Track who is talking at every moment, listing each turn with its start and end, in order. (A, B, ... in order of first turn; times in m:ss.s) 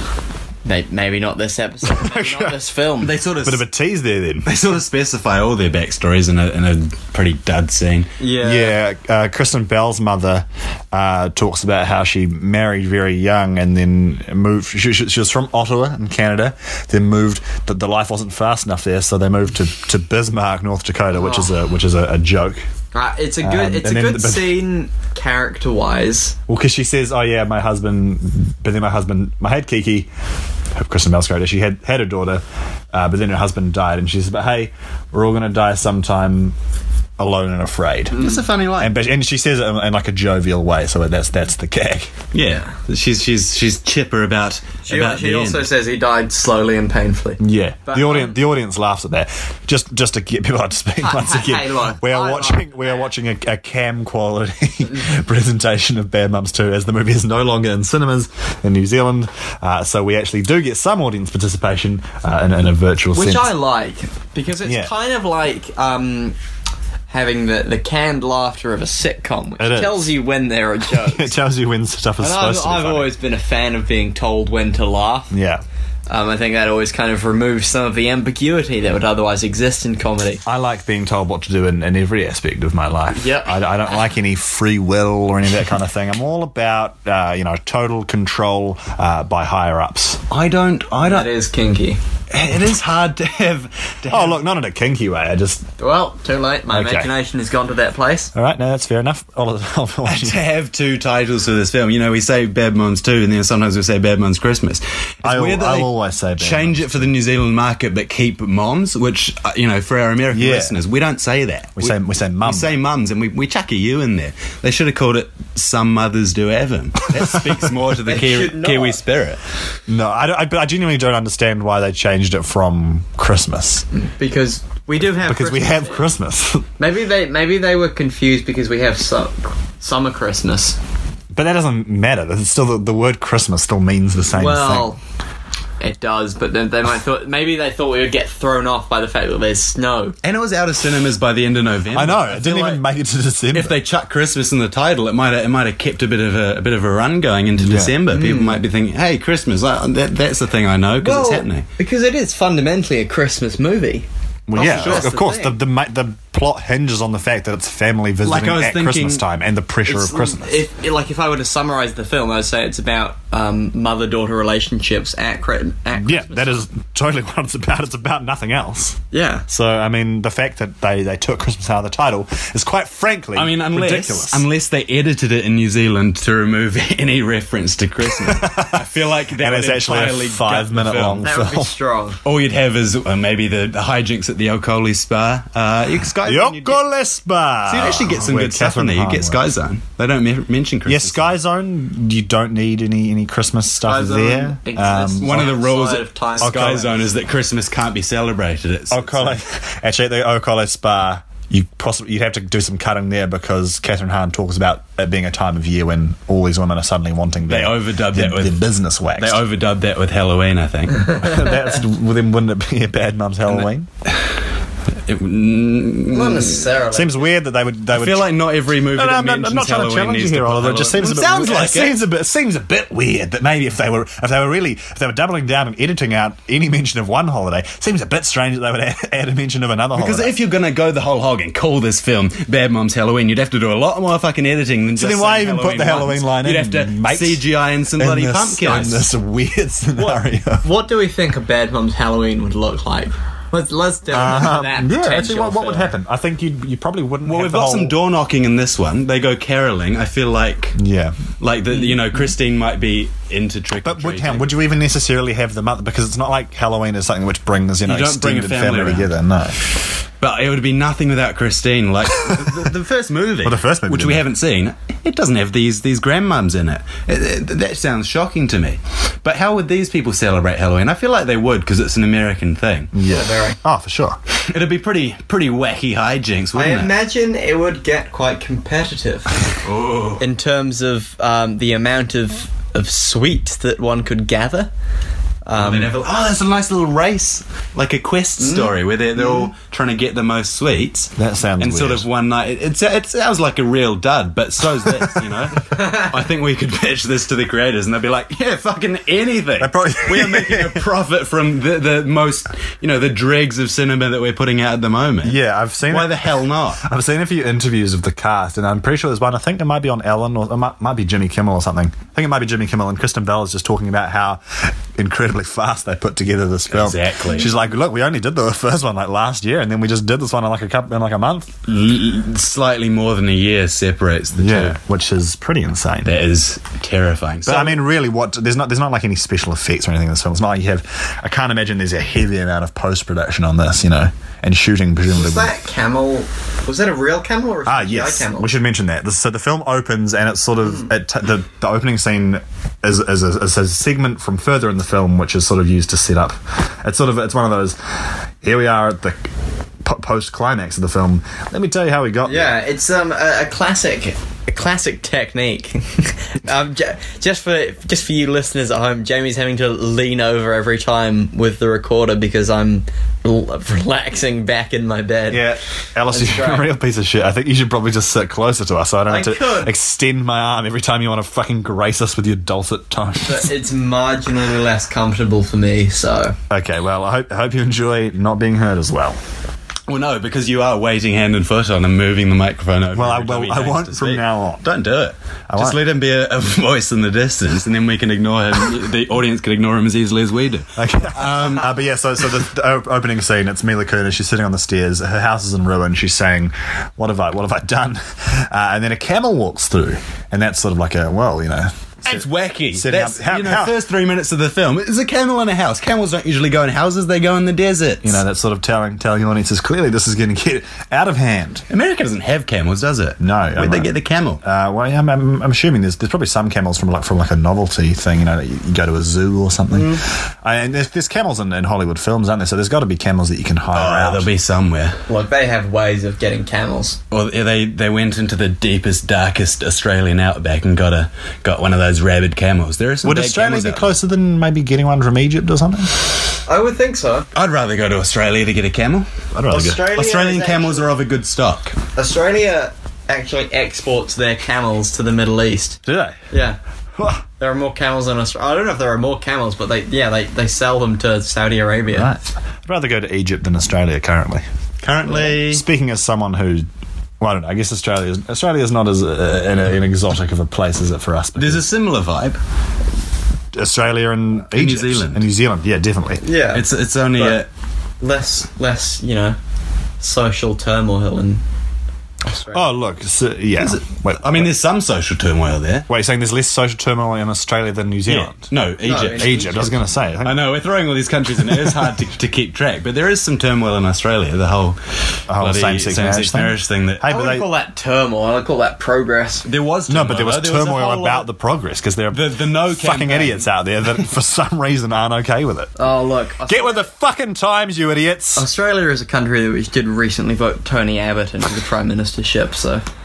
0:00.6-0:03.1 A
0:01.8-0:02.6 B
0:03.0-0:03.6 C
0:03.4-0:04.5 B
0:04.4-0:08.1 C
0:08.2-0:08.8 A
0:08.4-0:22.6 B
0:21.1-0:21.5 A
0:22.9-0:26.4 A
0:23.4-0:24.6 B
0:26.5-0:30.1 B
0:30.7-0:36.6 B
0:37.2-0:42.1 B
0:38.1-0:38.4 A
0:38.1-0:38.9 C
0:42.3-0:45.7 C
0:44.8-0:48.3 A
0:47.4-1:03.5 B
0:51.0-0:53.1 A
1:03.1-1:06.4 A
1:04.6-1:04.9 B
1:07.1-1:11.3 A
1:09.6-1:10.1 B
1:10.9-1:13.1 B
1:12.2-1:15.3 A
1:15.3-1:15.6 B
1:16.1-1:20.4 A
1:20.4-1:30.2 B
1:23.1-1:24.0 A
1:30.3-1:31.3 C
1:31.0-1:32.0 A
1:32.3-1:34.4 C
1:34.1-1:35.7 B
1:35.8-1:38.3 A
1:36.7-1:37.1 B
1:38.3-1:40.4 B
1:40.0-1:59.4 C
1:45.2-1:47.1 B
1:50.3-1:50.7 B
1:51.8-1:52.7 B
1:57.1-1:57.5 B
1:58.0-1:59.0 A
1:59.9-2:03.8 B
2:03.9-2:06.0 A
2:05.2-2:06.7 B
2:06.8-2:10.8 A
2:11.3-2:14.9 B
2:14.3-2:15.0 A
2:15.8-2:20.1 A
2:20.2-2:22.8 C
2:21.9-2:23.7 B
2:23.5-2:31.6 C
2:27.6-2:28.0 B
2:28.1-2:28.6 A
2:31.0-2:35.6 A
2:34.5-2:40.6 B
2:34.6-2:35.2 C
2:38.2-2:39.2 C
2:39.8-2:46.6 A
2:45.9-2:54.4 B
2:49.1-2:49.4 A
2:53.3-3:01.3 C
2:58.2-3:01.7 B
3:01.2-3:02.2 A
3:02.2-3:06.2 C
3:05.9-3:06.8 A
3:06.2-3:09.4 B
3:07.6-3:11.3 C
3:10.8-3:15.5 B
3:13.8-3:16.9 A
3:15.2-3:19.4 C
3:16.4-3:16.9 B
3:18.9-3:29.4 B
3:27.5-3:31.2 C
3:31.1-3:33.9 B
3:33.5-3:34.3 C
3:35.0-3:36.7 C
3:36.1-3:37.3 A
3:36.9-3:50.3 B
3:37.9-3:42.0 C
3:49.9-3:59.0 C
3:55.0-3:57.4 B
3:58.0-4:00.6 B
4:00.0-4:05.9 A
4:04.1-4:07.9 B
4:07.2-4:10.8 C
4:10.8-4:11.2 B
4:11.4-4:14.5 C
4:13.8-4:19.6 B
4:17.8-4:19.1 C
4:20.2-4:32.9 C
4:22.3-4:22.6 B
4:23.4-4:24.2 B
4:32.9-4:34.2 B
4:33.0-4:33.6 A
4:34.3-4:36.9 C
4:36.5-4:39.4 A
4:39.6-4:40.2 C
4:40.2-4:44.7 A
4:45.4-4:45.9 A
4:45.6-5:06.8 C
4:48.4-4:49.4 A
4:51.2-4:52.0 B
4:55.7-4:56.1 A
4:59.6-5:00.8 B
5:05.2-5:21.5 B
5:16.7-5:17.5 C
5:21.7-5:24.8 C
5:24.4-5:26.1 B
5:26.0-5:27.8 C
5:27.4-5:35.5 B
5:35.1-5:38.5 A
5:37.6-5:49.3 B
5:49.8-5:52.5 B
5:52.2-6:05.4 A
6:05.3-6:13.5 B
6:06.1-6:06.7 A
6:09.1-6:09.7 A
6:13.2-6:16.4 A
6:16.5-6:19.2 B
6:19.9-6:31.7 C
6:22.9-6:24.6 B
6:25.5-6:25.8 B
6:30.8-6:43.8 B
6:42.0-6:48.2 C
6:48.0-6:51.6 B
6:51.7-6:54.4 C
6:53.2-7:04.3 B
6:59.7-7:00.0 A
7:03.7-7:05.0 C
7:05.1-7:07.0 A
7:07.1-7:13.9 C
7:13.0-7:15.9 B
7:16.4-7:17.3 A
7:17.3-7:21.8 C
7:19.3-7:19.8 B
7:19.5-7:20.9 A
7:21.9-7:26.6 A
7:25.8-7:26.2 B
7:27.0-7:27.2 B
7:27.4-7:32.1 A
7:31.9-7:34.4 B
7:34.8-7:35.6 C
7:35.1-7:36.6 B
7:37.2-7:41.6 B
7:41.4-7:42.4 C
7:43.5-7:46.2 B
7:44.5-7:45.2 C
7:46.2-7:47.4 A
7:46.5-7:47.5 C
7:48.0-7:49.4 A
7:50.0-7:51.4 A
7:52.2-7:52.6 A
7:52.5-7:54.5 B
7:53.6-7:55.9 C
7:55.9-7:58.4 B
7:58.1-8:07.0 C
7:58.8-7:59.7 A
7:59.1-8:00.4 B
8:01.4-8:02.0 B
8:05.3-8:07.5 B
8:07.0-8:09.4 A
8:09.4-8:11.2 C
8:09.9-8:15.8 B
8:12.1-8:13.5 C
8:15.8-8:16.9 A
8:16.4-8:18.4 B
8:18.4-8:22.8 A